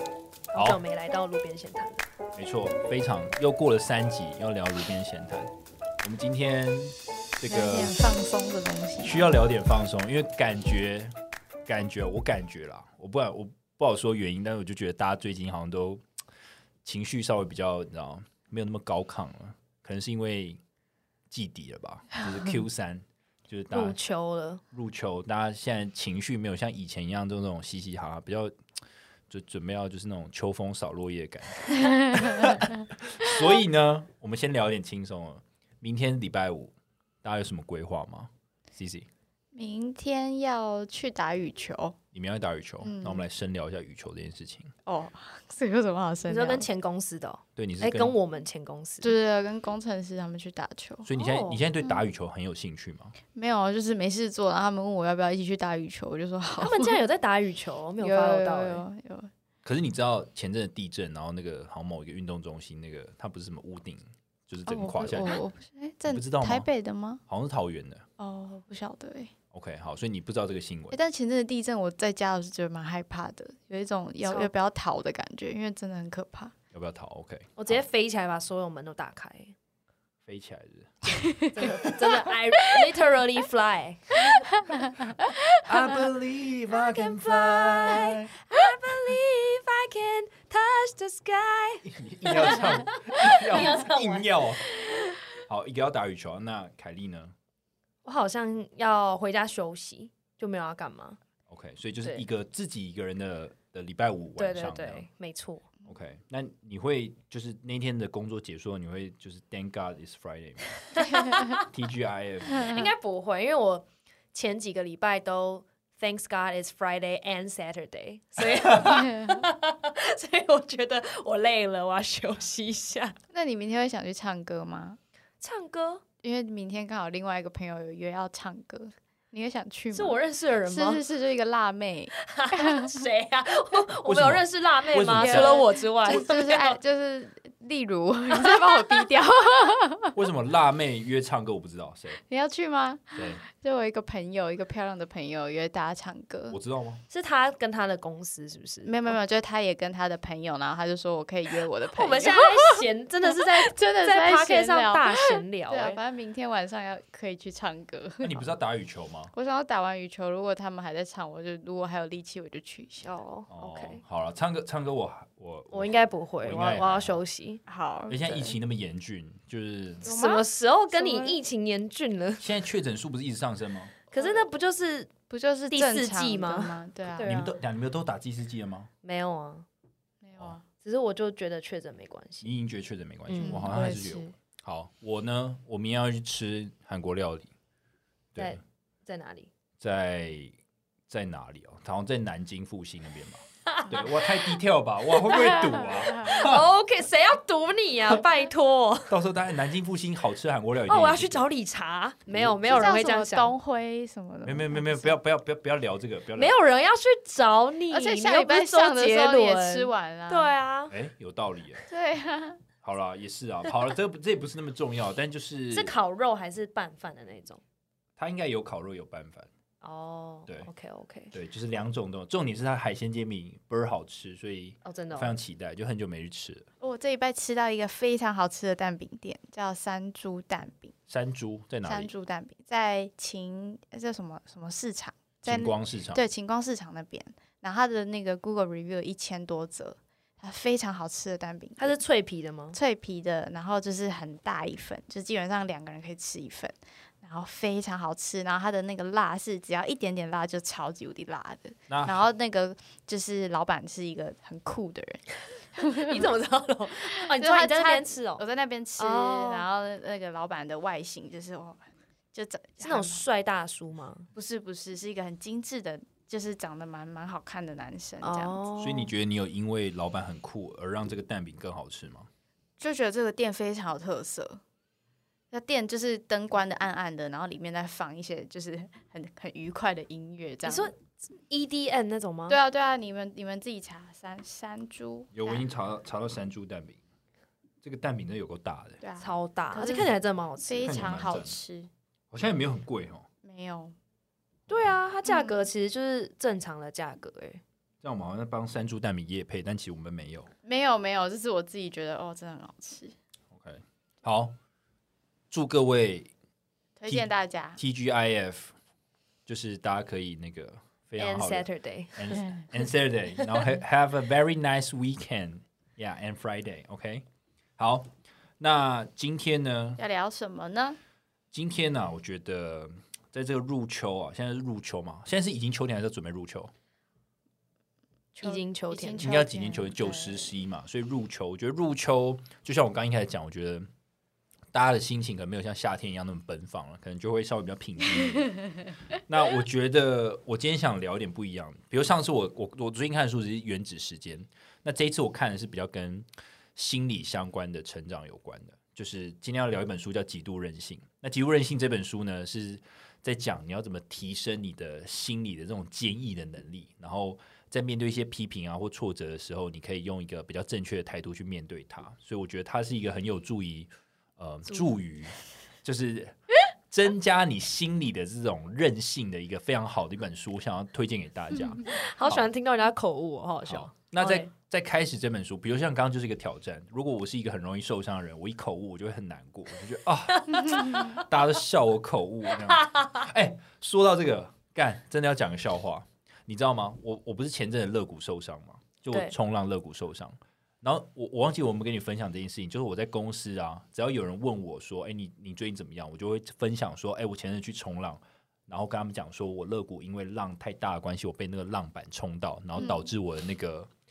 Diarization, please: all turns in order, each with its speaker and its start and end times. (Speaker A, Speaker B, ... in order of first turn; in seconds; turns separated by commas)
Speaker A: 0.5-2.0, Speaker B: 2.4-8.0, Speaker C: 7.5-9.3, Speaker B: 9.0-11.1, Speaker B: 11.7-16.0, Speaker B: 16.8-20.6, Speaker B: 21.3-24.0, Speaker A: 23.7-24.6, Speaker B: 24.7-28.5, Speaker B: 29.3-39.1, Speaker C: 31.8-32.5, Speaker C: 39.5-42.0, Speaker B: 42.1-44.7, Speaker C: 42.8-43.3, Speaker C: 44.9-46.7, Speaker A: 46.3-49.1, Speaker B: 47.5-48.1, Speaker C: 49.0-51.1, Speaker B: 51.0-53.1, Speaker A: 51.2-51.6, Speaker C: 53.4-57.0, Speaker A: 56.6-58.8, Speaker C: 58.0-59.3, Speaker B: 59.6-65.4, Speaker C: 64.7-67.2, Speaker B: 66.0-66.7, Speaker B: 67.3-68.0, Speaker C: 68.2-69.3, Speaker B: 69.5-71.0, Speaker C: 70.9-76.5, Speaker A: 74.2-74.5, Speaker B: 76.7-77.8, Speaker A: 77.6-79.5, Speaker B: 80.2-80.9, Speaker C: 81.1-82.0, Speaker A: 81.5-84.5, Speaker B: 85.6-88.3, Speaker A: 87.0-95.2, Speaker B: 91.8-94.7, Speaker B: 95.4-97.3, Speaker A: 98.0-101.2, Speaker B: 101.5-105.0, Speaker A: 104.4-105.7, Speaker B: 105.8-110.8, Speaker A: 110.9-111.7, Speaker B: 111.6-112.8, Speaker A: 112.6-123.2, Speaker C: 123.3-125.0, Speaker A: 125.4-126.0, Speaker C: 126.2-133.0, Speaker A: 129.9-131.0, Speaker A: 132.2-136.8, Speaker B: 134.0-135.6, Speaker C: 135.1-140.2, Speaker A: 138.3-139.0, Speaker B: 140.1-142.2, Speaker C: 142.3-146.6, Speaker B: 143.1-143.4, Speaker B: 146.5-147.0, Speaker A: 147.1-149.2, Speaker C: 148.8-158.5, Speaker A: 151.9-156.0, Speaker B: 158.2-159.3, Speaker C: 159.3-163.1, Speaker A: 163.0-164.0, Speaker B: 163.5-167.2, Speaker A: 165.7-167.6, Speaker C: 167.7-168.6, Speaker B: 168.1-170.1, Speaker A: 170.0-172.4, Speaker C: 170.0-171.4, Speaker B: 172.4-174.0, Speaker A: 174.1-175.1, Speaker C: 174.2-174.4, Speaker C: 175.3-177.4, Speaker A: 175.7-177.5, Speaker B: 177.2-178.9, Speaker A: 179.0-179.7, Speaker C: 180.2-180.6, Speaker A: 180.8-182.5, Speaker B: 182.4-187.5, Speaker A: 183.3-183.7, Speaker C: 183.4-184.3, Speaker A: 188.4-189.5, Speaker B: 189.8-190.5, Speaker B: 191.1-196.7, Speaker A: 193.7-194.2, Speaker A: 195.2-199.2, Speaker C: 195.3-196.1, Speaker B: 199.1-201.4, Speaker A: 200.9-203.5, Speaker C: 202.7-205.2, Speaker B: 204.4-206.6, Speaker A: 206.3-210.9, Speaker C: 207.9-210.5, Speaker B: 210.9-211.8, Speaker C: 211.9-212.6, Speaker B: 212.8-215.9, Speaker A: 215.7-217.6, Speaker B: 218.2-219.5, Speaker A: 219.8-221.3, Speaker B: 221.3-226.7, Speaker A: 224.8-225.3, Speaker C: 226.8-230.9, Speaker B: 231.1-232.1, Speaker C: 231.8-242.0, Speaker B: 235.4-236.2, Speaker A: 241.8-242.8, Speaker C: 242.7-256.3, Speaker B: 251.9-252.2, Speaker A: 255.9-258.4, Speaker C: 257.2-263.2, Speaker A: 259.0-259.7, Speaker A: 262.8-264.3, Speaker C: 264.4-268.6, Speaker A: 268.2-269.1, Speaker B: 268.8-272.3, Speaker C: 272.8-274.6, Speaker C: 275.5-280.9, Speaker A: 280.6-280.9, Speaker A: 281.5-282.6, Speaker C: 282.5-285.6, Speaker B: 285.3-287.0, Speaker B: 287.8-289.0, Speaker C: 289.0-291.9, Speaker A: 289.2-291.3, Speaker B: 290.9-291.6, Speaker B: 292.3-293.2, Speaker C: 293.4-293.9, Speaker A: 294.7-297.6, Speaker C: 295.3-295.6, Speaker B: 298.0-300.5, Speaker C: 300.6-303.1, Speaker B: 303.5-304.6, Speaker B: 305.5-306.3, Speaker C: 307.0-307.8, Speaker B: 307.1-308.8, Speaker B: 309.5-317.2, Speaker A: 311.2-312.5, Speaker C: 312.4-312.7, Speaker B: 317.8-320.0, Speaker C: 320.0-321.0, Speaker B: 321.5-326.7, Speaker C: 328.4-330.6, Speaker A: 328.4-329.3, Speaker B: 329.2-333.9, Speaker B: 334.7-338.6, Speaker B: 339.2-366.4, Speaker B: 366.9-372.5, Speaker A: 371.8-374.5, Speaker B: 373.7-403.9, Speaker A: 380.3-381.2, Speaker C: 380.7-381.2, Speaker A: 382.6-383.2, Speaker C: 402.8-403.1